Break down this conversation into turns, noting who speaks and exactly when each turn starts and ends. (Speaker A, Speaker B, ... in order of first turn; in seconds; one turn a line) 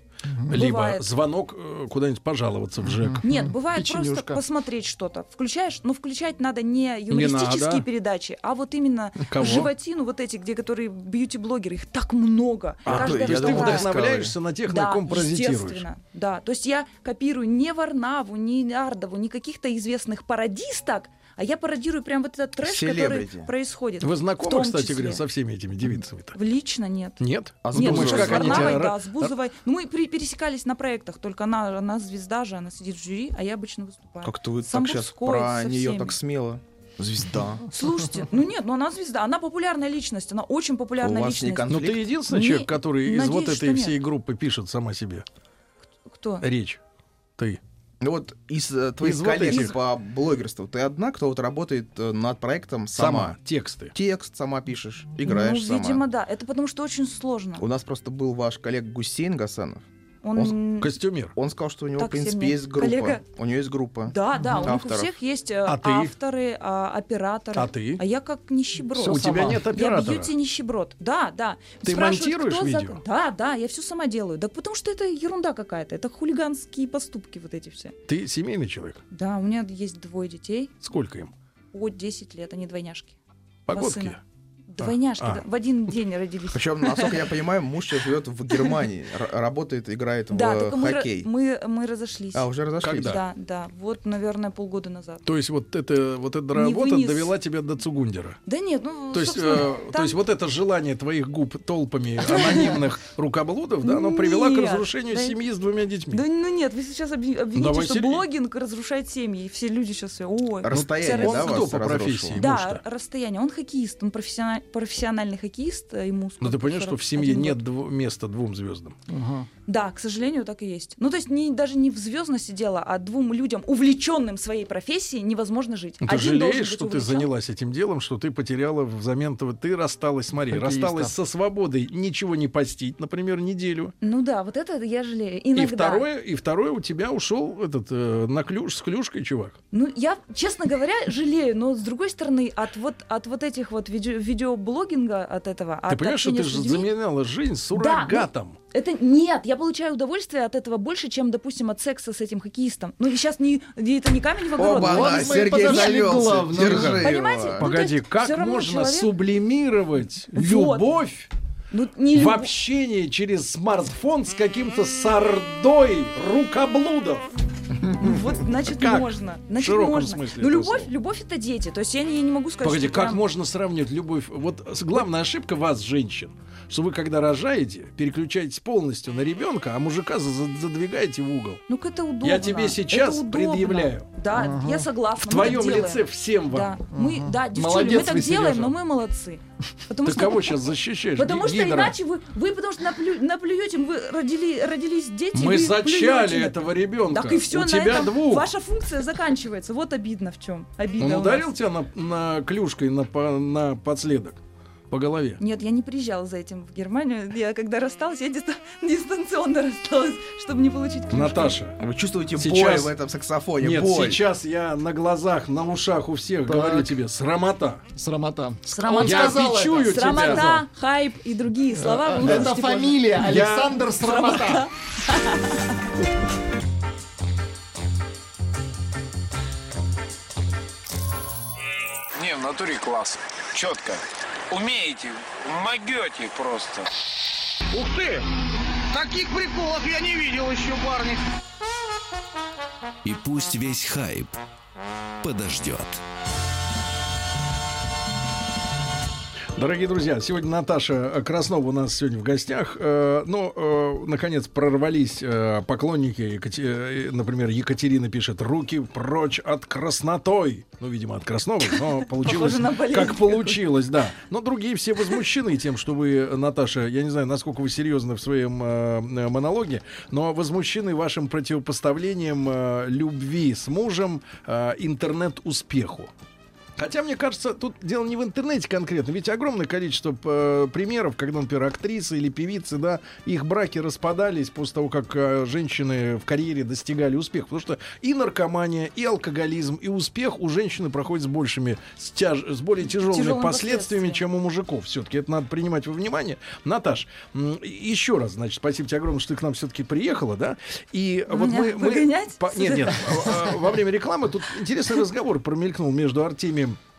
Speaker A: 0.3-0.5
Speaker B: 0.5-3.2
Speaker C: 0.5-1.1
Speaker A: 2.9-4.4
Speaker C: 3.2-14.0
Speaker B: 7.1-7.8
Speaker B: 9.3-9.7
Speaker D: 12.9-14.3
Speaker B: 12.9-15.8
Speaker C: 14.7-25.2
Speaker D: 22.6-23.5
Speaker B: 24.0-26.4
Speaker C: 26.3-36.1
Speaker B: 27.2-29.3
Speaker D: 27.6-28.8
Speaker D: 34.2-37.6
Speaker C: 37.7-44.0
Speaker D: 41.0-42.0
Speaker B: 41.7-45.2
Speaker C: 46.1-46.4
Speaker B: 46.4-46.8
Speaker D: 48.0-53.4
Speaker B: 49.0-49.8
Speaker C: 49.5-49.8
Speaker B: 53.0-53.9
Speaker D: 53.9-56.0
Speaker C: 55.2-57.6
Speaker D: 57.6-59.8
Speaker C: 60.2-60.9
Speaker B: 60.8-61.3
Speaker D: 61.4-65.1
Speaker C: 62.0-63.2
Speaker C: 64.1-78.0
Speaker B: 65.7-66.1
Speaker B: 67.6-68.0
Speaker B: 69.0-70.3
Speaker A: 69.1-69.6
Speaker B: 71.8-73.0
Speaker B: 78.1-79.0
Speaker C: 79.1-80.8
Speaker B: 80.8-81.3
Speaker C: 81.7-83.2
Speaker B: 83.7-84.2
Speaker C: 83.7-84.2
Speaker C: 84.7-87.2
Speaker B: 84.8-85.4
Speaker D: 86.5-91.3
Speaker C: 90.3-95.2
Speaker D: 92.3-93.2
Speaker B: 92.8-93.2
Speaker B: 95.2-98.4
Speaker C: 96.5-97.3
Speaker C: 98.5-100.2
Speaker B: 99.1-106.2
Speaker C: 102.2-102.8
Speaker C: 103.8-105.4
Speaker C: 106.1-111.7
Speaker B: 107.5-108.3
Speaker D: 110.6-112.4
Speaker B: 110.7-112.8
Speaker C: 112.4-117.6
Speaker B: 116.4-119.0
Speaker A: 119.1-119.5
Speaker C: 119.7-127.3
Speaker B: 126.0-133.9
Speaker A: 130.5-131.1
Speaker C: 134.0-136.1
Speaker B: 135.6-139.6
Speaker C: 139.7-146.9
Speaker B: 145.9-148.6
Speaker C: 147.7-156.1
Speaker D: 154.6-157.7
Speaker A: 154.7-157.0
Speaker B: 155.7-161.3
Speaker C: 156.8-159.1
Speaker C: 160.3-160.8
Speaker C: 161.7-162.5
Speaker B: 162.1-167.3
Speaker C: 168.0-173.2
Speaker B: 168.8-170.9
Speaker B: 172.6-181.6
Speaker C: 181.7-190.6
Speaker B: 182.2-184.1
Speaker A: 184.3-184.9
Speaker B: 185.2-186.7
Speaker A: 186.9-188.8
Speaker B: 190.1-192.0
Speaker C: 191.2-201.5
Speaker B: 195.3-198.5
Speaker B: 201.0-204.4
Speaker B: 204.9-205.4
Speaker C: 205.4-211.6
Speaker B: 211.1-211.8
Speaker D: 211.8-214.2
Speaker B: 212.4-212.9
Speaker B: 213.6-217.8
Speaker A: 216.5-216.9
Speaker A: 217.9-220.6
Speaker C: 218.7-223.1
Speaker B: 219.0-220.5
Speaker A: 221.8-224.7
Speaker B: 223.2-224.4
Speaker C: 224.0-225.7
Speaker E: 232.2-236.9
Speaker E: 237.7-238.3
Speaker E: 238.9-241.2
Speaker F: 243.0-244.4
Speaker F: 245.2-246.0
Speaker B: 249.6-276.1
Speaker C: 261.9-263.6
Speaker B: 276.8-306.8
Speaker C: 293.1-294.2
Speaker C: 301.3-303.3